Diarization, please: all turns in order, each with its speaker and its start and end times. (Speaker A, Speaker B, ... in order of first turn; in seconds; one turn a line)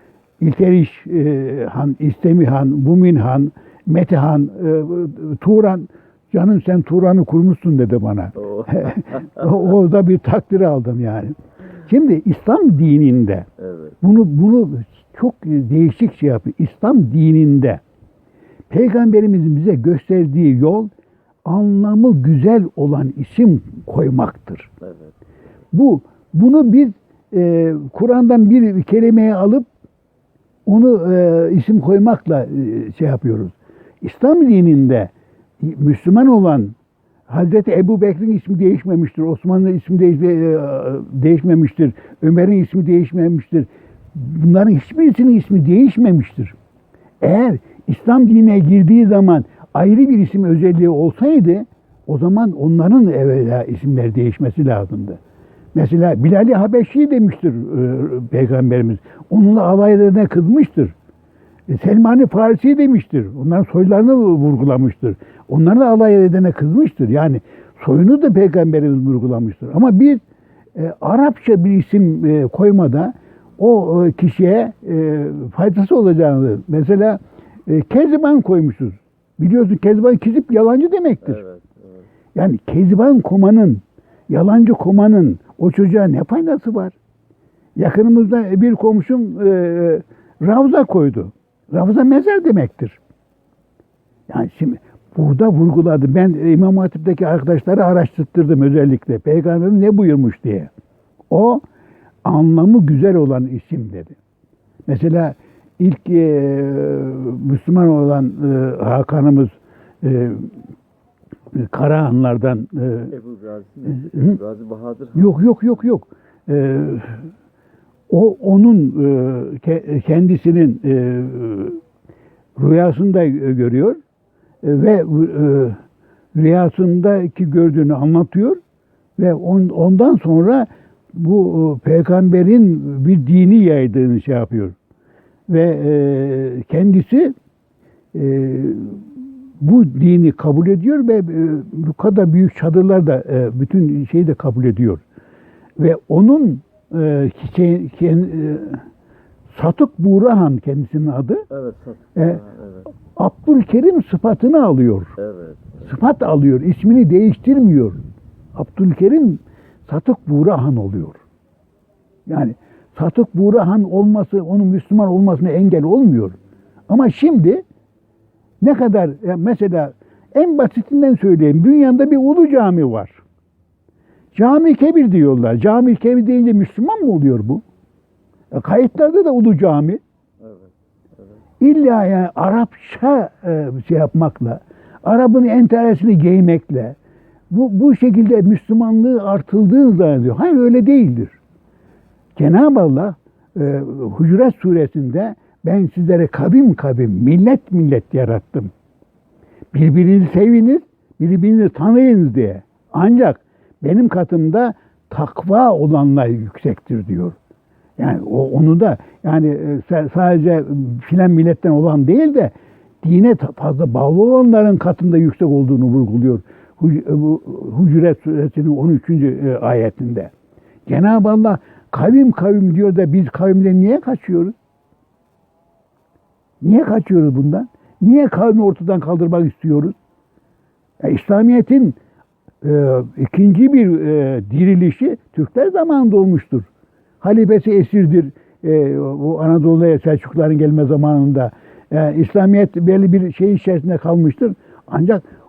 Speaker A: 0.4-13.5
Speaker B: 8.4-9.5
Speaker B: 13.6-14.0
Speaker A: 14.0-17.8
Speaker A: 18.7-20.9
Speaker A: 21.4-24.7
Speaker B: 24.8-25.1
Speaker A: 25.7-29.7
Speaker A: 30.6-36.7
Speaker A: 37.3-46.5
Speaker A: 47.2-55.2
Speaker A: 55.7-60.9
Speaker A: 61.7-70.2
Speaker A: 70.8-81.4
Speaker B: 81.2-82.1
Speaker A: 82.3-87.0
Speaker A: 87.8-93.0
Speaker A: 94.3-100.7
Speaker A: 101.3-101.6
Speaker A: 102.2-104.2
Speaker A: 104.9-110.5
Speaker A: 111.5-113.1
Speaker B: 113.1-115.5
Speaker A: 114.0-114.4
Speaker A: 115.1-117.3
Speaker A: 118.1-121.8
Speaker A: 122.6-124.0
Speaker A: 124.6-125.8
Speaker A: 126.3-128.6
Speaker A: 129.2-134.7
Speaker A: 135.5-137.3
Speaker A: 138.1-145.0
Speaker A: 145.8-148.8
Speaker A: 149.5-151.4
Speaker B: 151.5-152.9
Speaker A: 153.1-155.1
Speaker B: 155.2-155.9
Speaker A: 155.8-158.0
Speaker A: 158.5-161.2
Speaker A: 162.3-166.4
Speaker A: 166.9-167.6
Speaker A: 168.6-173.2
Speaker A: 174.3-177.6
Speaker A: 178.5-180.0
Speaker B: 180.4-181.4
Speaker A: 181.6-186.9
Speaker A: 187.5-191.4
Speaker A: 192.3-198.7
Speaker A: 199.7-207.3
Speaker A: 208.0-220.3
Speaker A: 220.9-224.5
Speaker A: 226.6-229.9
Speaker A: 231.0-232.0
Speaker A: 232.6-236.7
Speaker A: 237.2-245.2